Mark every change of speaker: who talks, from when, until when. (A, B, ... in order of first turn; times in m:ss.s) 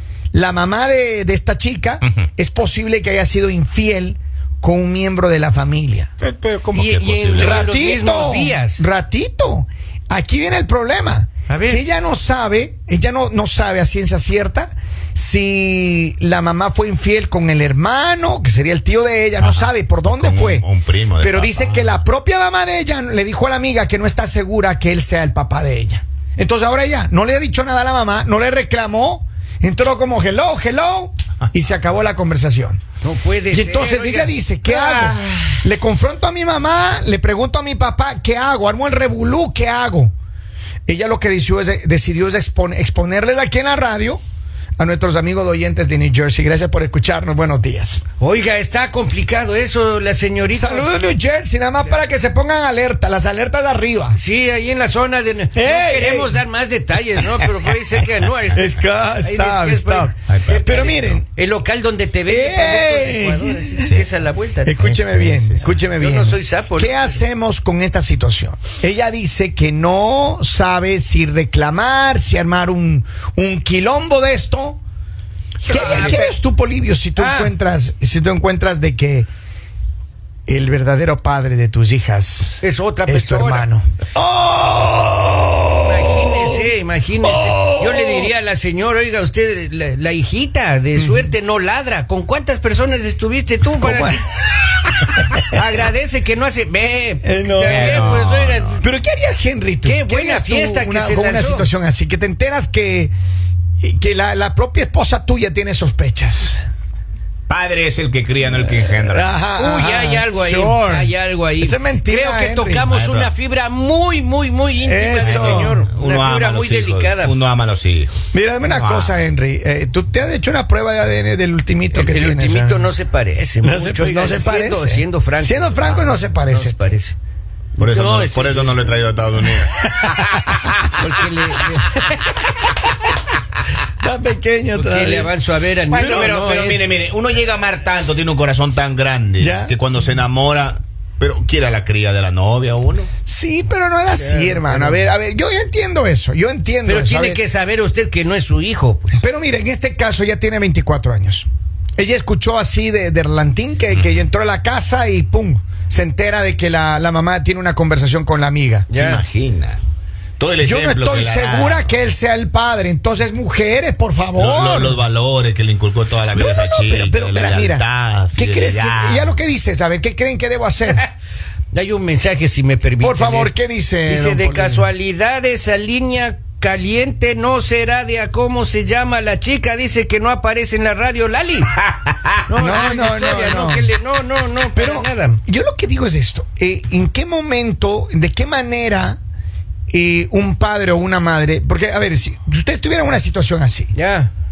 0:00.3-0:06.1 A
0:06.2-0:07.7 B
0:06.7-0:08.8 C
0:07.4-0:20.7 A
0:11.5-0:11.8 C
0:19.4-0:22.0 B
0:21.2-0:32.8 A
0:33.0-0:35.6 C
0:33.5-0:40.1 A
0:40.9-0:44.2 A
0:44.8-0:48.0 A
0:48.2-0:51.0 C
0:50.5-0:54.2 A
0:54.2-1:04.9 C
0:55.6-0:56.4 A
0:58.6-1:01.2 A
1:00.3-1:01.1 B
1:02.3-1:03.8 A
1:04.6-1:14.8 A
1:04.8-1:05.8 B
1:05.6-1:07.2 C
1:15.6-1:16.3 B
1:15.7-1:19.3 A
1:15.7-1:16.2 C
1:17.2-1:17.5 C
1:20.5-1:26.7 A
1:22.6-1:23.7 C
1:25.8-1:34.2 C
1:27.2-1:28.3 A
1:31.0-1:31.3 A
1:33.8-1:35.6 A
1:35.4-1:38.8 C
1:37.2-1:38.2 A
1:37.6-1:38.8 B
1:38.8-1:43.1 A
1:39.8-1:41.7 C
1:43.8-1:46.6 A
1:47.5-1:49.3 B
1:48.8-1:52.9 A
1:49.6-1:57.4 C
1:52.9-1:53.3 B
1:54.8-1:55.8 A
1:55.2-1:59.2 B
1:58.3-2:02.9 A
2:01.9-2:07.2 C
2:03.6-2:06.8 A
2:07.8-2:09.0 C
2:07.8-2:10.9 B
2:10.4-2:12.2 C
2:14.0-2:15.3 A
2:14.8-2:16.8 C
2:15.9-2:23.1 B
2:19.4-2:19.8 A
2:23.3-2:27.4 A
2:24.1-2:25.0 C
2:26.9-2:29.2 C
2:29.2-2:38.9 A
2:38.9-2:39.2 C
2:38.9-2:39.8 B
2:40.4-2:42.0 B
2:40.6-2:45.0 A
2:44.4-2:49.4 B
2:46.3-2:51.1 A
2:51.7-3:01.7 C
2:53.0-2:54.9 A
3:02.5-3:05.4 C
3:02.6-3:03.9 A
3:04.7-3:09.2 A
3:09.9-3:13.9 A
3:13.9-3:14.3 C